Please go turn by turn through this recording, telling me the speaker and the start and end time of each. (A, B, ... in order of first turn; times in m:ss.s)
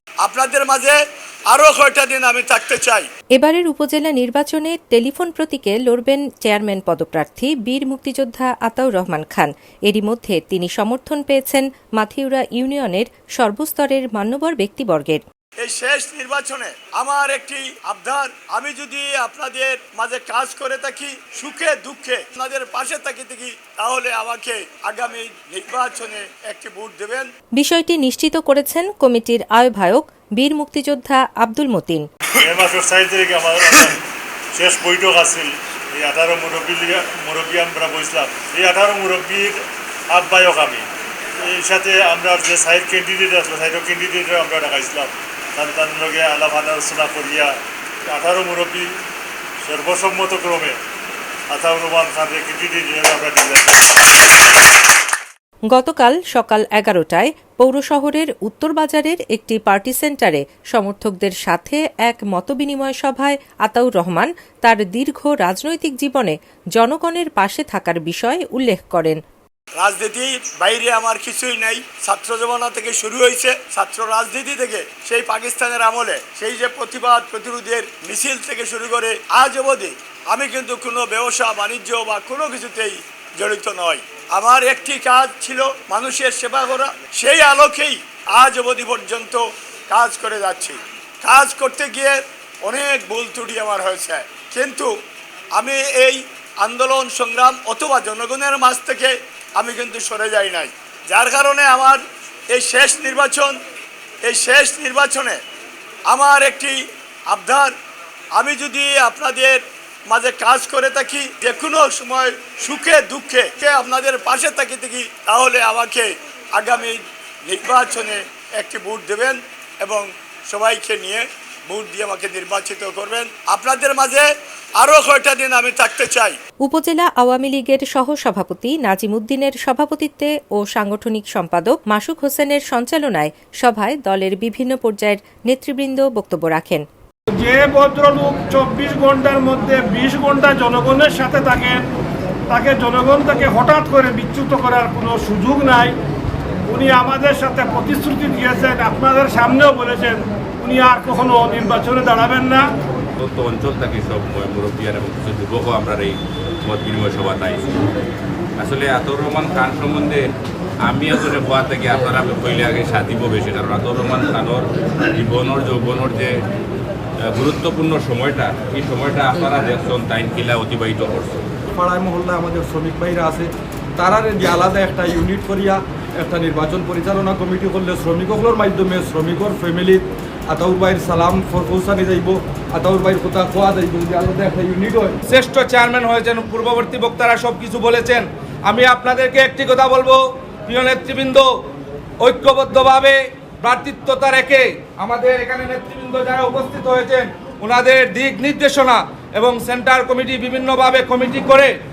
0:00.2-0:01.0 A
0:01.5-0:03.1 A
0:03.4-0:15.2 B
0:15.6-0:27.3 A
0:27.6-0:32.0 B
0:32.4-0:34.0 C
0:34.5-0:39.6 C
0:40.1-0:40.9 C
0:41.4-0:47.5 C
0:48.1-0:48.9 C
0:49.6-0:50.8 C
0:51.5-0:54.0 C
0:55.7-1:09.2 B
1:09.8-1:34.9 A
1:35.6-1:42.0 A
1:42.5-1:43.6 A
1:44.2-1:45.4 A
1:46.1-1:46.8 A
1:47.3-1:47.7 A
1:48.4-2:04.3 A
2:04.8-2:06.4 A
2:06.7-2:16.8 B
2:17.3-2:21.8 D
2:22.5-2:26.0 D
2:26.7-2:32.7 D
2:33.2-2:37.8 E
2:38.6-2:40.3 E
2:40.8-2:46.3 E
2:47.3-2:51.4 E
2:51.8-2:53.5 F
2:54.0-3:05.1 F
3:05.3-3:11.5 G
3:12.2-3:21.7 G